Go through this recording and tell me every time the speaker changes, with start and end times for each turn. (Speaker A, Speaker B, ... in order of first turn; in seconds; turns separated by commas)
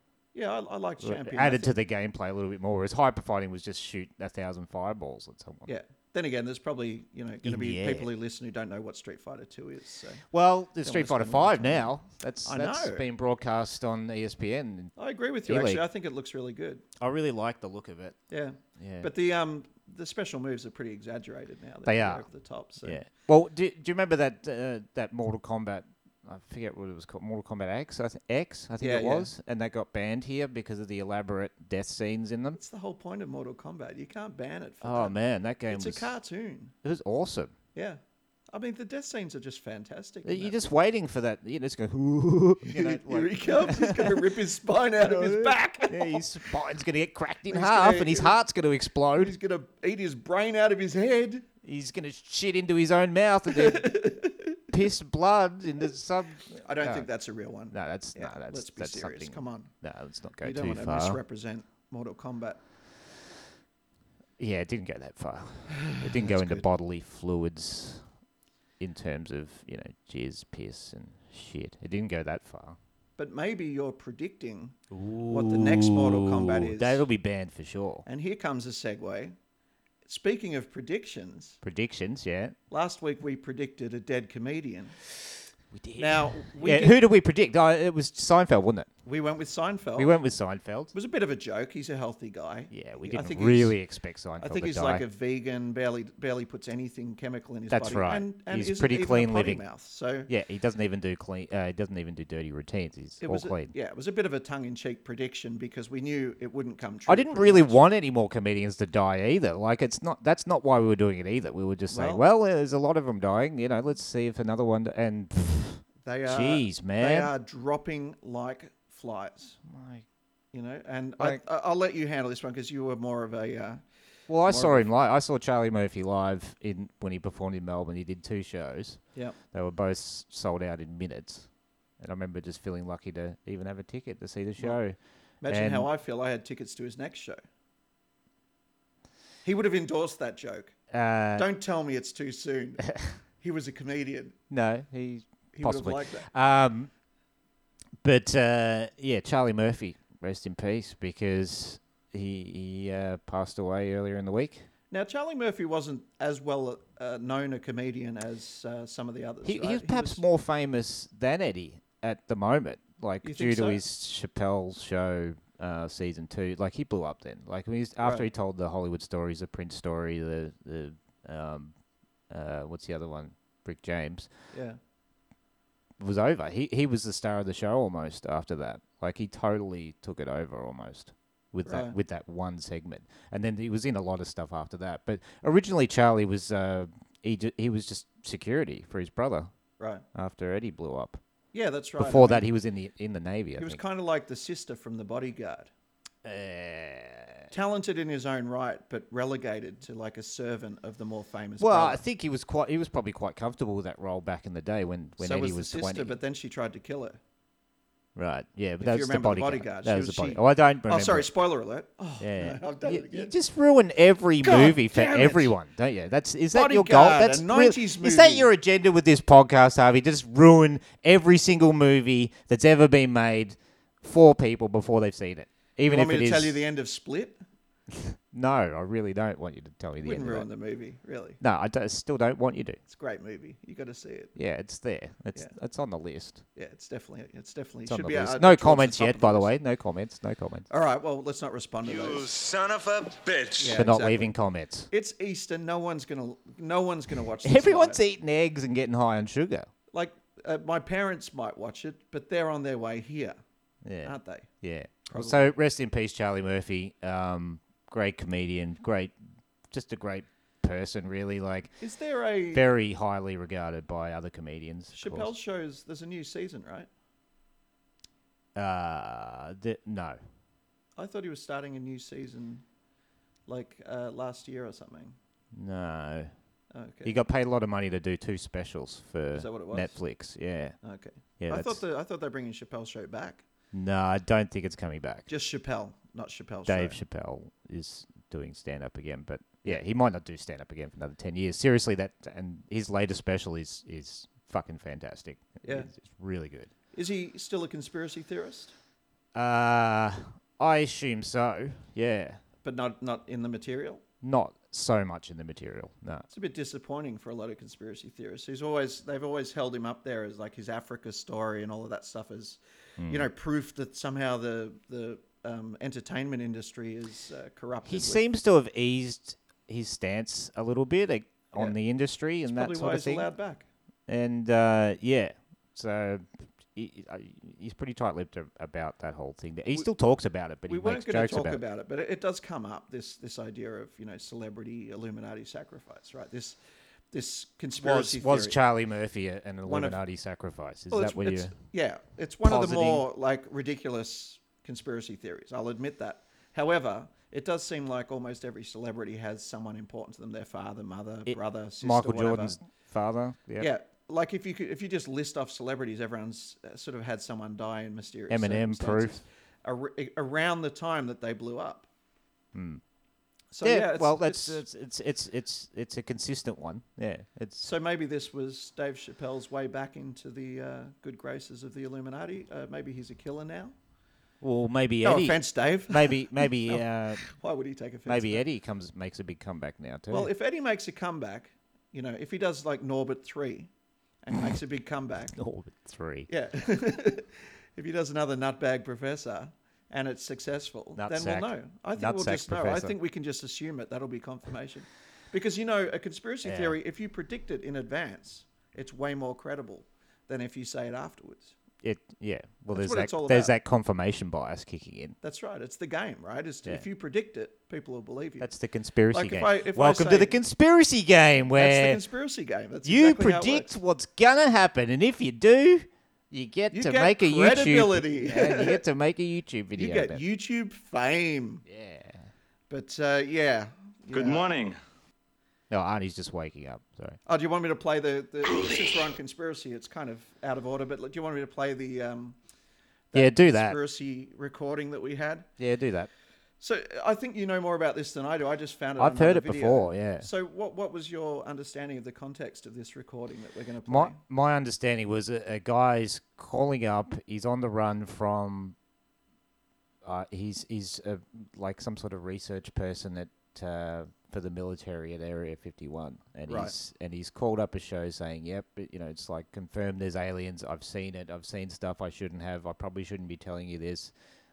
Speaker A: 0.3-1.7, Speaker B: 1.0-5.7, Speaker A: 5.7-10.2, Speaker B: 7.4-8.1, Speaker B: 10.3-15.8, Speaker A: 10.8-11.9, Speaker A: 12.4-13.1, Speaker A: 14.9-16.8, Speaker B: 17.0-18.2, Speaker A: 18.3-23.0, Speaker B: 18.8-19.1, Speaker B: 21.8-22.2, Speaker B: 22.8-32.6, Speaker A: 28.8-29.3, Speaker A: 32.5-35.1, Speaker B: 34.8-36.1, Speaker A: 35.7-36.7, Speaker B: 36.8-37.5, Speaker A: 38.5-40.5, Speaker B: 40.2-44.3, Speaker A: 42.6-46.2, Speaker B: 45.0-49.4, Speaker A: 47.5-48.4, Speaker A: 49.1-51.4, Speaker B: 51.6-53.9, Speaker A: 53.5-54.7, Speaker B: 54.7-57.1, Speaker A: 56.5-59.7, Speaker B: 57.7-61.2, Speaker A: 60.4-62.6, Speaker B: 64.4-68.0, Speaker A: 65.8-66.6, Speaker B: 68.8-72.8, Speaker A: 73.2-74.8, Speaker B: 74.9-78.0, Speaker A: 75.3-77.0, Speaker A: 78.0-79.3, Speaker A: 80.0-81.6, Speaker B: 81.6-82.5, Speaker A: 82.7-85.0, Speaker B: 85.7-88.9, Speaker A: 86.0-87.0, Speaker A: 89.0-90.2, Speaker B: 90.0-90.9, Speaker A: 90.9-93.8, Speaker B: 92.7-95.0, Speaker A: 94.4-100.3, Speaker B: 97.7-99.6, Speaker B: 100.3-103.7, Speaker A: 103.2-107.8, Speaker B: 107.1-117.3, Speaker A: 111.9-112.2, Speaker A: 116.0-119.6, Speaker B: 119.6-120.0, Speaker A: 120.5-123.8, Speaker B: 124.3-135.0, Speaker A: 124.4-124.9, Speaker A: 135.4-137.4, Speaker B: 135.5-135.9, Speaker A: 139.4-140.8, Speaker B: 140.9-141.4, Speaker A: 141.3-142.9, Speaker A: 143.4-144.3, Speaker B: 144.5-146.9, Speaker A: 145.5-146.3, Speaker B: 148.0-154.7, Speaker A: 154.9-160.2, Speaker B: 159.4-171.7, Speaker A: 163.2-163.8, Speaker A: 168.0-168.3, Speaker B: 172.3-174.3, Speaker A: 174.5-174.8, Speaker B: 176.0-189.5, Speaker A: 181.6-181.9, Speaker A: 189.8-190.0, Speaker B: 190.1-191.2, Speaker A: 191.5-192.5, Speaker B: 192.0-193.8, Speaker A: 193.6-195.7, Speaker B: 196.2-197.5, Speaker A: 197.5-202.0, Speaker B: 201.6-206.1, Speaker A: 205.2-207.2, Speaker B: 208.2-211.3, Speaker A: 208.8-213.3, Speaker B: 212.2-226.6, Speaker A: 214.4-215.5, Speaker A: 216.5-218.5, Speaker A: 225.9-227.4, Speaker B: 227.9-230.5, Speaker A: 230.0-231.4, Speaker B: 231.4-232.8, Speaker A: 232.9-234.3, Speaker B: 234.3-236.4, Speaker A: 236.5-239.5, Speaker B: 237.8-240.7, Speaker A: 240.7-242.3, Speaker C: 241.8-243.8, Speaker A: 243.6-244.3, Speaker B: 243.7-244.9, Speaker A: 244.9-248.0, Speaker B: 247.4-249.7, Speaker A: 249.9-253.4, Speaker B: 253.8-259.2, Speaker A: 254.0-254.5, Speaker A: 255.1-255.5, Speaker B: 259.7-261.8, Speaker A: 261.8-262.6, Speaker B: 262.5-265.3, Speaker A: 264.9-266.9, Speaker B: 268.6-270.2, Speaker A: 270.9-272.6, Speaker A: 273.5-275.1, Speaker B: 275.5-276.3, Speaker A: 276.7-277.2, Speaker B: 277.0-280.8, Speaker A: 279.3-280.0, Speaker A: 280.8-283.4, Speaker B: 281.4-281.8, Speaker B: 283.7-285.3, Speaker A: 285.3-287.0, Speaker B: 286.7-296.7, Speaker A: 295.6-295.9, Speaker A: 296.9-298.7, Speaker B: 299.3-302.4, Speaker A: 302.6-304.0, Speaker B: 304.2-306.2, Speaker A: 306.3-318.2, Speaker B: 313.0-313.3, Speaker B: 317.8-323.3, Speaker A: 322.4-323.7, Speaker B: 324.1-331.6, Speaker A: 330.7-336.6, Speaker A: 337.1-338.6, Speaker B: 337.8-341.5, Speaker A: 339.6-340.0, Speaker A: 340.9-352.6, Speaker B: 342.4-343.0, Speaker B: 351.2-353.7, Speaker A: 353.6-361.9, Speaker B: 358.3-359.2, Speaker B: 362.5-362.8, Speaker A: 363.5-364.6, Speaker B: 363.6-367.7, Speaker A: 367.6-373.7, Speaker B: 374.4-377.3, Speaker A: 375.0-378.4, Speaker B: 378.1-380.3, Speaker A: 380.1-383.7, Speaker A: 384.2-385.4, Speaker B: 385.4-386.3, Speaker A: 386.3-401.5, Speaker B: 390.9-392.9, Speaker B: 396.4-396.8, Speaker B: 401.8-405.1, Speaker A: 402.7-403.5, Speaker A: 405.2-408.5, Speaker B: 408.4-412.0, Speaker A: 409.1-410.4, Speaker A: 411.5-413.7, Speaker B: 412.8-420.2, Speaker A: 416.7-418.8, Speaker A: 419.7-421.6, Speaker B: 421.6-422.3, Speaker A: 422.7-424.5, Speaker C: 424.1-424.8, Speaker B: 425.7-427.2, Speaker A: 427.2-432.4, Speaker A: 433.1-435.5, Speaker B: 433.1-433.8, Speaker B: 435.6-436.1, Speaker A: 436.6-444.2, Speaker B: 439.0-440.3, Speaker B: 443.9-448.8, Speaker B: 450.0-464.1, Speaker A: 456.5-456.7